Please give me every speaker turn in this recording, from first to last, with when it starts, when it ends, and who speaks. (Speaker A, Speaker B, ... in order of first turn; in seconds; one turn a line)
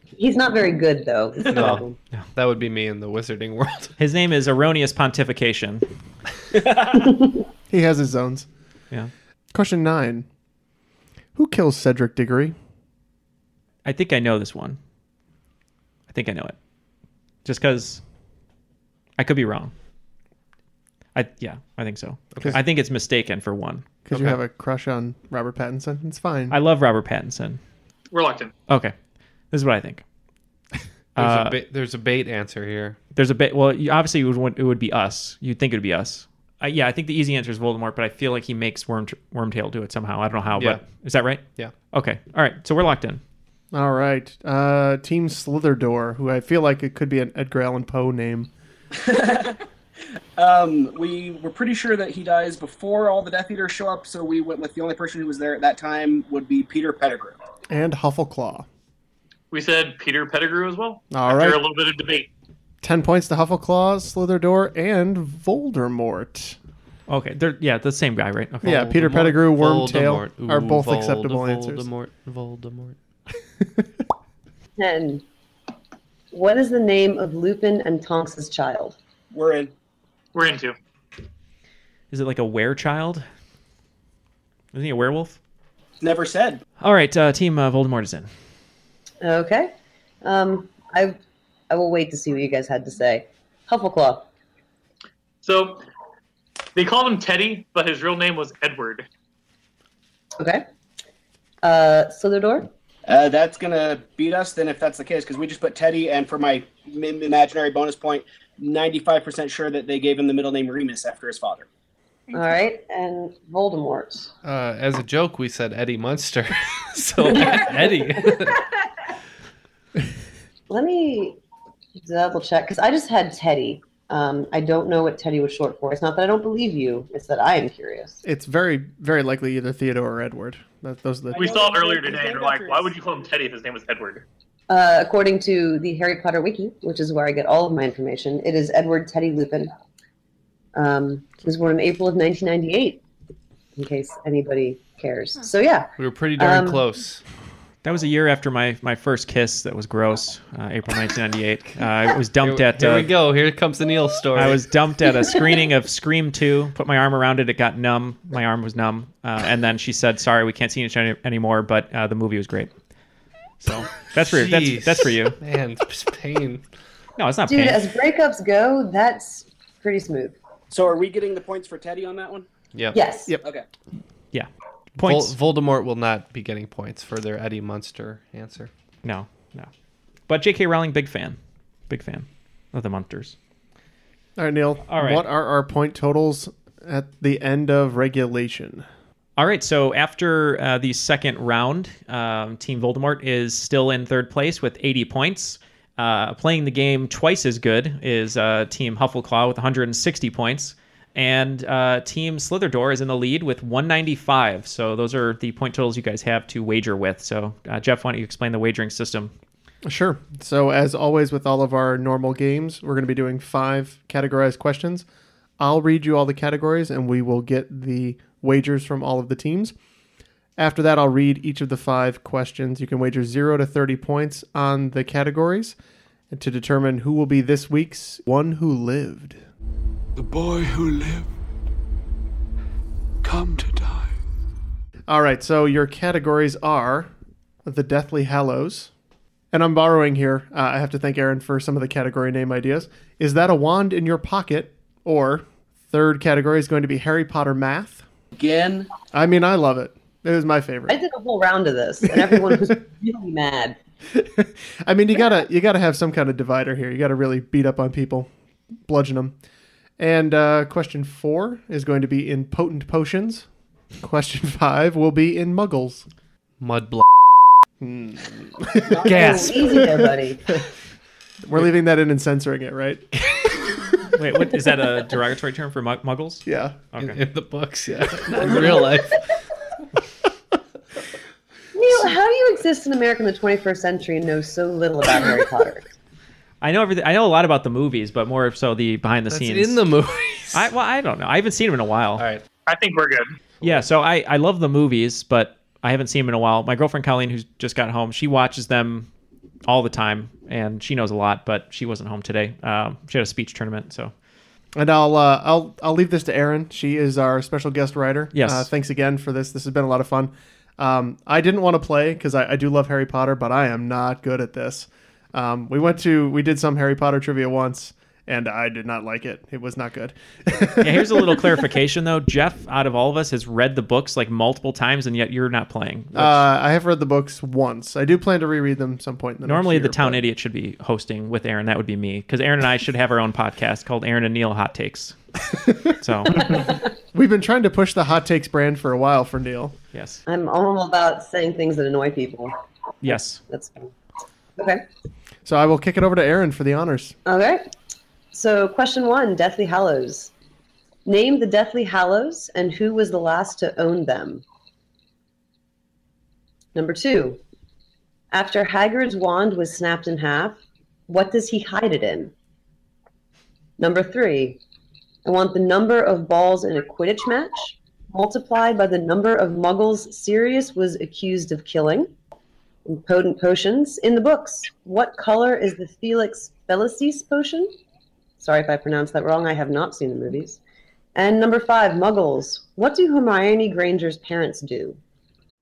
Speaker A: 0.1-2.0
Speaker B: 1.5-3.9
Speaker C: 4.0-5.8
Speaker D: 6.5-7.1
Speaker E: 7.7-8.5
Speaker E: 9.5-10.2
Speaker E: 11.3-12.5
Speaker C: 13.8-14.8
Speaker C: 16.1-16.6
Speaker C: 17.4-18.0
Speaker C: 19.2-19.7
Speaker C: 21.1-24.0
Speaker B: 22.3-22.6
Speaker E: 24.1-26.6
Speaker C: 26.5-27.6
Speaker F: 28.1-28.5
Speaker C: 28.7-28.9
Speaker C: 29.5-30.0
Speaker C: 31.1-31.6
Speaker B: 31.1-33.0
Speaker C: 33.1-43.2
Speaker B: 40.5-40.8
Speaker B: 41.5-41.7
Speaker E: 43.7-48.5
Speaker D: 49.0-49.6
Speaker D: 50.4-57.4
Speaker E: 57.7-58.6
Speaker F: 59.5-62.3
Speaker E: 61.1-61.6
Speaker E: 62.8-66.6
Speaker C: 67.1-69.3
Speaker E: 68.6-71.9
Speaker B: 68.7-73.0
Speaker A: 74.8-75.2
Speaker A: 76.3-79.0
Speaker D: 79.3-79.7
Speaker F: 80.3-80.7
Speaker C: 82.1-83.2
Speaker C: 84.7-85.4
Speaker D: 86.0-86.6
Speaker C: 86.8-88.3
Speaker A: 89.2-89.7
Speaker A: 90.2-91.2
Speaker A: 91.7-94.3
Speaker F: 95.4-95.8
Speaker F: 96.8-99.1
Speaker A: 100.4-100.6
Speaker A: 101.6-102.7
Speaker D: 103.0-111.7
Speaker A: 112.3-114.3
Speaker B: 114.4-118.6
Speaker A: 117.3-117.9
Speaker A: 120.7-121.4
Speaker A: 122.0-128.2
Speaker E: 128.2-131.5
Speaker D: 131.3-132.9
Speaker F: 131.3-134.2
Speaker A: 134.7-139.7
Speaker A: 140.7-143.0
Speaker A: 143.8-146.9
Speaker B: 146.0-147.2
Speaker C: 147.8-153.1
Speaker B: 152.4-154.6
Speaker C: 154.3-162.7
Speaker C: 163.6-165.3
Speaker B: 164.1-166.6
Speaker C: 167.2-167.8
Speaker A: 167.5-170.3
Speaker D: 170.7-172.5
Speaker B: 172.7-173.0
Speaker A: 172.9-173.3
Speaker D: 173.4-173.7
Speaker C: 174.3-175.3
Speaker B: 175.0-178.7
Speaker C: 179.0-179.7
Speaker C: 180.3-181.4
Speaker C: 181.9-183.3
Speaker E: 184.4-188.8
Speaker C: 184.9-185.2
Speaker C: 189.4-209.3
Speaker E: 209.8-215.1
Speaker E: 215.6-219.7
Speaker E: 220.6-225.8
Speaker E: 226.3-229.4
Speaker G: 230.2-231.3
Speaker G: 233.2-234.2
Speaker E: 235.1-237.1
Speaker E: 237.6-238.9
Speaker E: 239.5-248.0
Speaker D: 248.3-248.9
Speaker E: 249.1-251.0
Speaker A: 250.9-253.8
Speaker E: 252.2-252.7
Speaker E: 254.1-258.3
Speaker E: 258.9-259.3
Speaker E: 260.0-263.4
Speaker E: 264.0-266.0
Speaker B: 266.6-267.1
Speaker E: 267.8-270.1
Speaker D: 268.9-269.3
Speaker B: 269.0-269.8
Speaker A: 269.1-270.4
Speaker E: 271.4-273.9
Speaker C: 274.1-277.2
Speaker E: 276.4-276.8
Speaker B: 277.0-279.2
Speaker A: 281.7-285.9
Speaker C: 286.6-289.8
Speaker B: 289.3-290.7
Speaker C: 290.5-292.2
Speaker B: 292.2-292.4
Speaker F: 292.7-293.3
Speaker C: 293.6-299.1
Speaker C: 299.6-304.1
Speaker E: 304.7-321.4
Speaker C: 308.3-308.7
Speaker C: 320.8-326.5
Speaker E: 326.1-330.2
Speaker C: 329.4-335.2
Speaker C: 336.0-336.6
Speaker E: 337.1-339.8
Speaker C: 339.9-340.2
Speaker A: 340.3-342.5
Speaker C: 343.0-343.4
Speaker A: 343.4-343.9
Speaker A: 344.6-344.8
Speaker E: 345.4-347.1
Speaker A: 347.2-347.7
Speaker A: 348.3-350.3
Speaker A: 351.0-354.4
Speaker A: 356.7-357.4
Speaker A: 358.3-362.3
Speaker A: 363.8-364.6
Speaker A: 365.2-372.1
Speaker A: 372.9-377.7
Speaker A: 378.4-380.6
Speaker A: 381.1-385.0